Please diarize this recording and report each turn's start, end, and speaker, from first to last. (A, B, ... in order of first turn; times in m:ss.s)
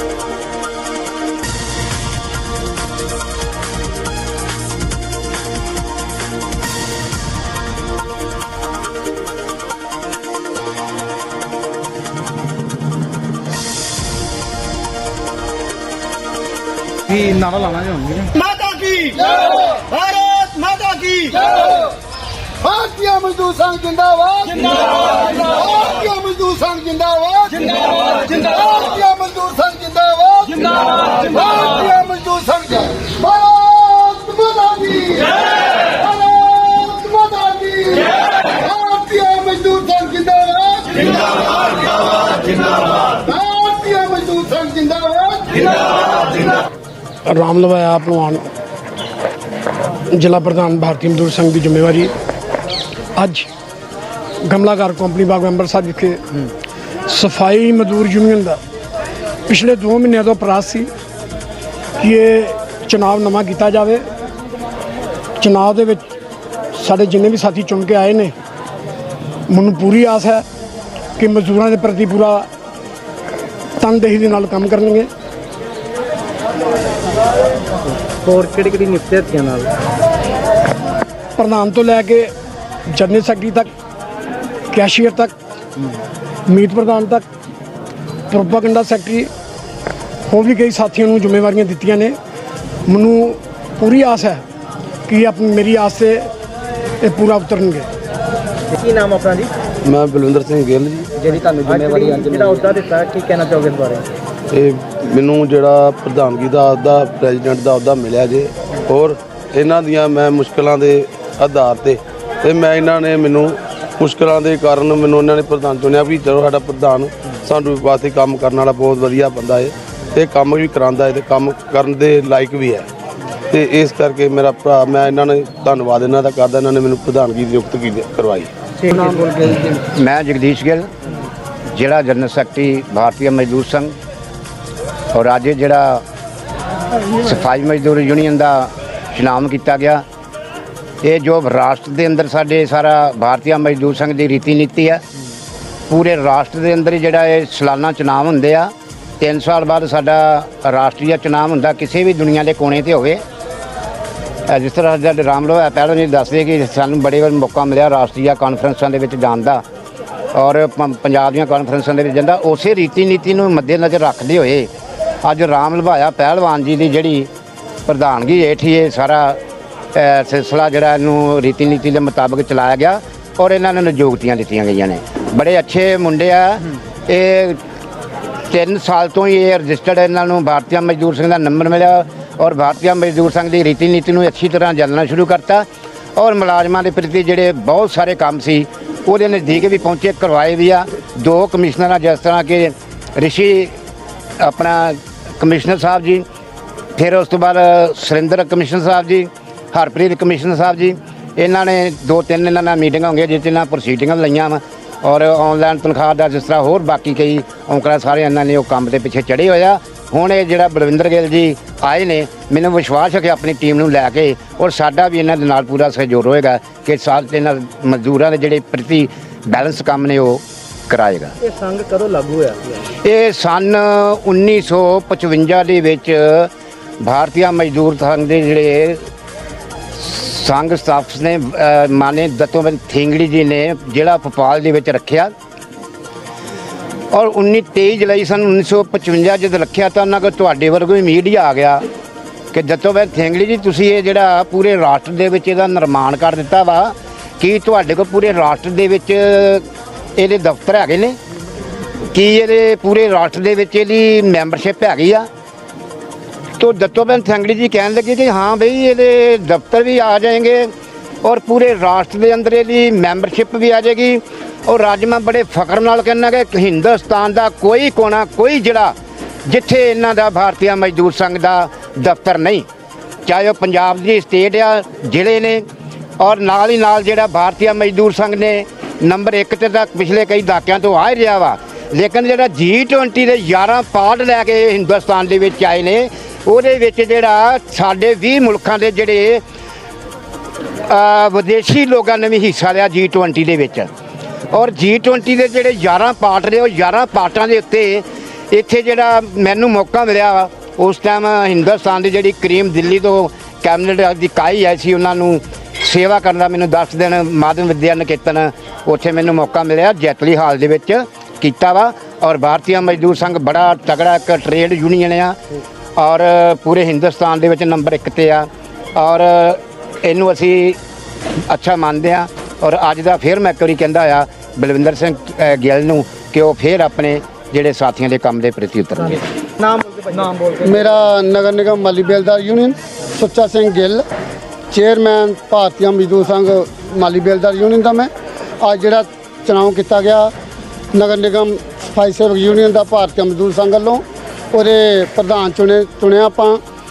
0:17.5-0:18.0 A
0:18.2-0:21.9 B
0:22.6-0:46.5 B
0:47.2-0:48.4 C
0:50.1-0:52.1 C
0:53.2-0:53.5 C
0:54.4-0:56.2 C
0:57.1-0:58.6 C
0:59.5-1:00.9 C
1:02.0-1:04.1 C
1:05.4-1:06.2 C
1:06.7-1:08.3 C
1:09.5-1:10.4 C
1:11.2-1:12.5 C
1:13.8-1:15.1 C
1:18.2-1:19.7 A
1:21.4-1:22.3 C
1:22.9-1:23.7 C
1:24.7-1:25.3 C
1:26.5-1:27.2 C
1:28.3-1:29.3 C
1:30.3-1:32.2 C
1:32.8-1:34.4 C
1:35.1-1:36.3 C
1:37.0-1:37.9 C
1:38.8-1:39.5 A
1:39.8-1:41.1 D
1:41.2-1:44.1 A
1:44.5-2:02.9 D
2:03.5-2:08.5 D
2:09.0-2:09.5 A
2:09.7-2:10.9 E
2:11.7-2:13.9 E
2:15.1-2:16.0 E
2:17.1-2:20.0 E
2:21.0-2:25.0 E
2:25.9-2:33.2 E
2:34.5-2:39.6 E
2:40.3-2:44.7 E
2:45.2-2:47.3 E
2:47.9-2:49.4 E
2:49.9-2:57.6 E
2:58.5-3:13.7 E
3:14.4-3:16.2 E
3:17.0-3:41.3 E
3:41.4-3:42.8 A
3:43.0-3:46.5 E
3:47.0-3:49.0 E
3:49.9-3:55.3 E
3:57.1-4:01.8 E
4:02.5-4:09.6 E
4:10.2-4:11.2 E
4:12.1-4:15.3 E
4:16.6-4:20.7 E
4:21.2-4:28.9 E
4:29.4-4:32.6 E
4:33.2-4:35.6 E
4:36.2-4:49.4 E
4:50.9-4:53.9 E
4:54.5-5:15.4 E
5:16.0-5:20.8 E
5:21.5-5:29.2 E
5:29.6-5:30.5 A
5:30.6-5:34.0 B
5:34.7-5:38.1 B
5:38.6-5:40.3 B
5:40.9-5:46.6 B